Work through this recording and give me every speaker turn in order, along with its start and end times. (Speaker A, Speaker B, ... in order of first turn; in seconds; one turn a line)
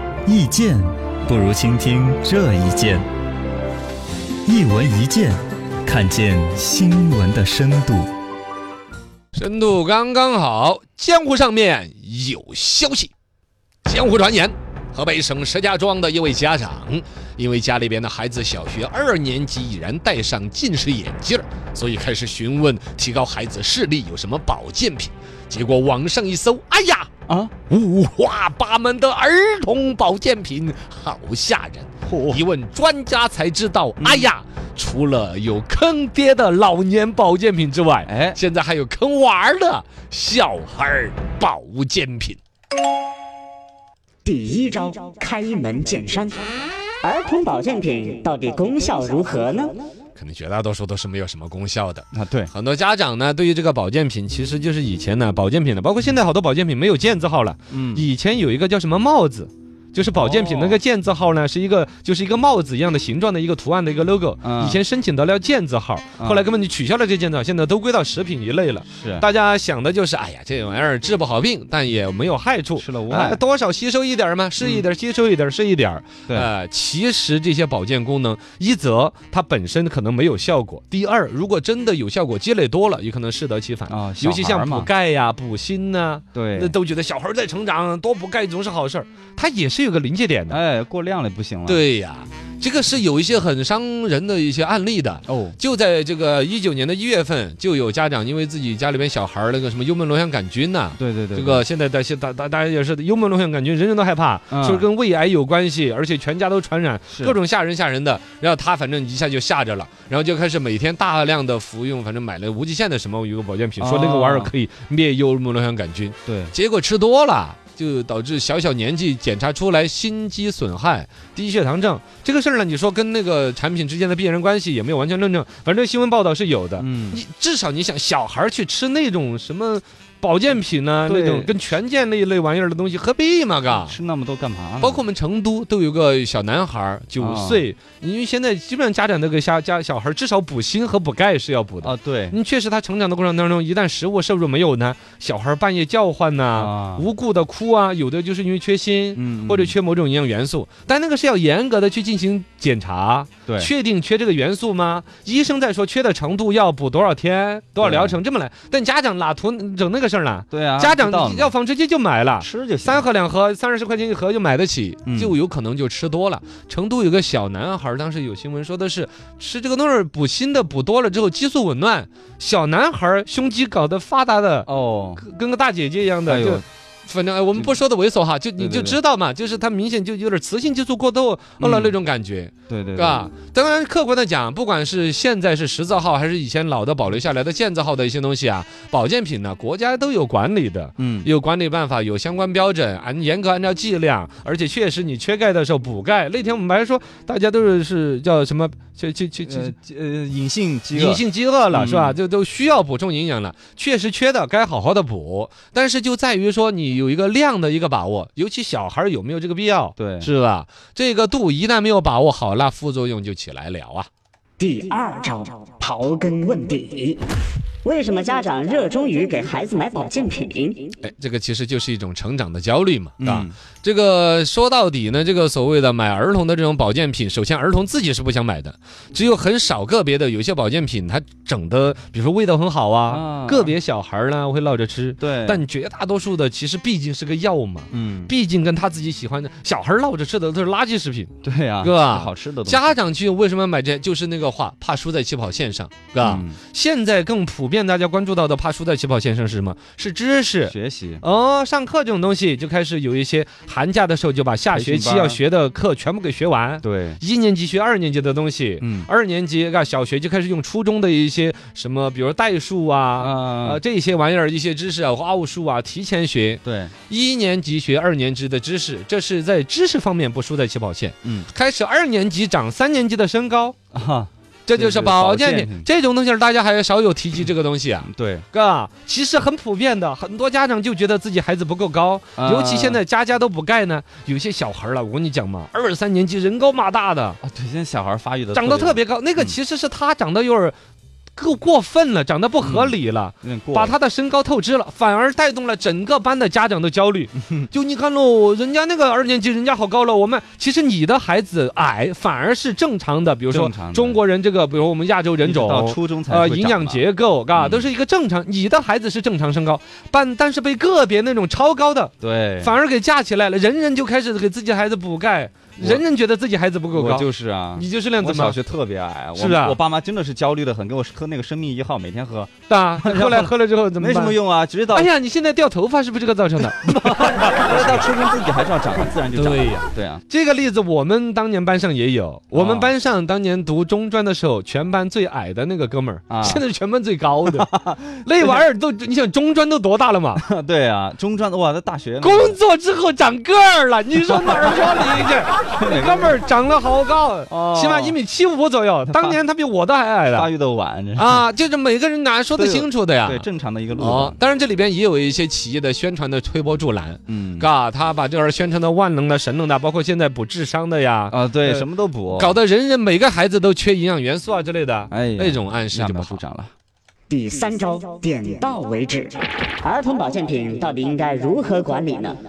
Speaker A: 0.3-3.0
Speaker A: 4.5-8.1
Speaker B: 9.3-13.1
Speaker B: 13.8-27.1
Speaker B: 27.7-42.4
Speaker C: 32.1-32.4
Speaker C: 34.0-34.3
Speaker C: 38.0-38.4
Speaker D: 44.2-46.4
Speaker D: 47.0-49.8
Speaker B: 50.2-90.6
Speaker C: 52.1-52.5
Speaker C: 57.7-58.0
Speaker C: 60.1-60.8
Speaker C: 64.4-64.8
Speaker C: 66.2-66.5
Speaker C: 68.9-69.3
Speaker C: 72.8-73.4
Speaker C: 83.9-84.9
Speaker C: 86.3-86.7
Speaker C: 90.5-91.8
Speaker B: 91.7-134.0
Speaker C: 95.3-95.6
Speaker C: 101.0-101.7
Speaker C: 104.5-104.8
Speaker C: 107.1-107.4
Speaker C: 113.8-114.5
Speaker C: 116.3-116.5
Speaker C: 126.8-127.2
Speaker C: 131.1-131.5
Speaker C: 133.7-135.0
Speaker B: 134.8-199.7
Speaker C: 137.2-137.6
Speaker C: 141.8-142.4
Speaker C: 146.6-147.1
Speaker C: 149.2-149.8
Speaker C: 157.8-158.2
Speaker C: 160.5-161.5
Speaker C: 162.4-163.1
Speaker C: 165.1-165.3
Speaker C: 174.7-175.2
Speaker C: 176.3-176.6
Speaker C: 178.6-179.0
Speaker C: 181.6-181.9
Speaker C: 182.7-183.3
Speaker C: 191.0-191.3
Speaker C: 199.4-202.2
Speaker B: 200.9-214.1
Speaker C: 210.0-210.3
Speaker D: 214.6-217.2
Speaker D: 217.8-220.9
Speaker B: 221.0-273.8
Speaker C: 223.2-223.6
Speaker C: 233.1-233.7
Speaker C: 235.2-235.6
Speaker C: 237.9-238.3
Speaker C: 241.4-242.9
Speaker C: 246.2-246.6
Speaker C: 250.7-251.2
Speaker C: 254.7-255.4
Speaker C: 256.8-257.2
Speaker C: 258.8-259.1
Speaker C: 263.2-263.8
Speaker C: 266.6-266.9
Speaker C: 271.2-271.5
Speaker C: 273.9-275.9
Speaker B: 274.7-287.4
Speaker C: 278.0-278.5
Speaker C: 282.4-283.0
Speaker C: 287.4-289.6
Speaker B: 288.5-290.8
Speaker B: 291.4-318.6
Speaker C: 292.6-294.0
Speaker C: 303.5-304.2
Speaker C: 305.4-307.0
Speaker C: 307.6-307.9
Speaker C: 312.2-312.8
Speaker C: 315.8-316.0
Speaker C: 316.9-325.1
Speaker B: 319.4-319.8
Speaker B: 322.7-324.4
Speaker B: 324.9-328.0
Speaker C: 326.8-330.2
Speaker B: 329.3-340.4
Speaker C: 332.5-332.9
Speaker C: 336.3-336.6
Speaker C: 337.5-338.5
Speaker C: 340.4-342.6
Speaker B: 342.2-350.5
Speaker C: 345.8-346.4
Speaker C: 347.5-348.2
Speaker C: 349.1-349.4
Speaker C: 350.3-351.4
Speaker B: 351.2-366.4
Speaker C: 352.6-354.4
Speaker C: 357.3-357.7
Speaker C: 361.3-362.6
Speaker C: 365.1-366.7
Speaker D: 367.3-372.4